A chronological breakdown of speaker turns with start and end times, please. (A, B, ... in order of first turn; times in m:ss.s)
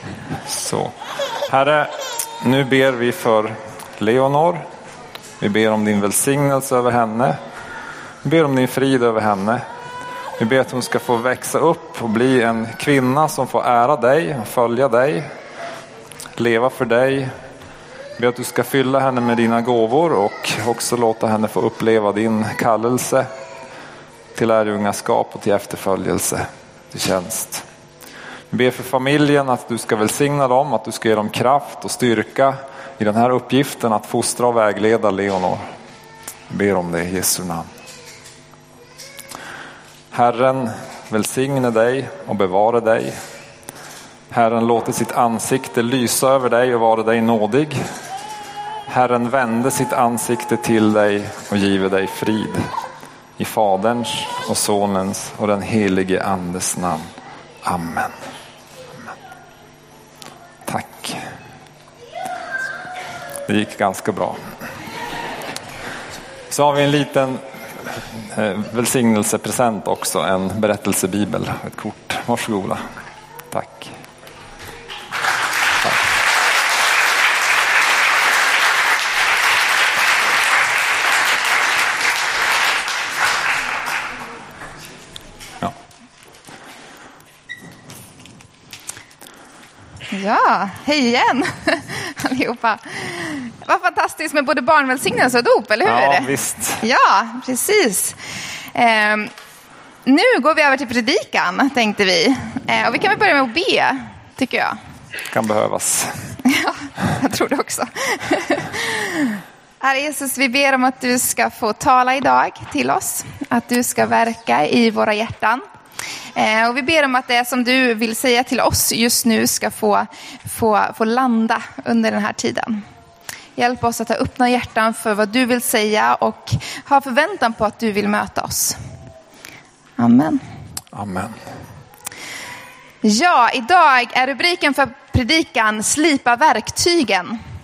0:00.4-0:00.9 A
0:01.5-0:04.6 A
0:05.4-0:07.4 A
0:08.2-0:09.6 A
0:10.4-0:15.3 A
0:16.4-0:17.3 A
0:18.2-0:23.3 A
0:24.3-0:27.6 A
0:28.5-0:35.6 A
0:36.5-0:37.7 A
0:40.1-0:43.2 A
0:44.3-0:47.8 A
0:48.9-0:52.6 A
0:53.4-0:57.1 A
0:57.6-0:58.2 A
1:00.6-1:01.2 A
1:03.5-1:04.4 A
1:06.5-1:12.8 A
1:13.5-1:13.9 A
1:30.1-1:36.3 B
1:35.8-1:36.8 A
1:36.8-1:38.2 B
1:38.7-1:39.3 B
1:40.0-1:44.8 B
1:45.3-1:46.1 A
1:46.4-1:55.6 B
1:56.3-2:02.8 B
2:03.6-2:08.8 B
2:10.0-2:10.4 B
2:10.9-2:11.4 A
2:13.0-2:17.4 B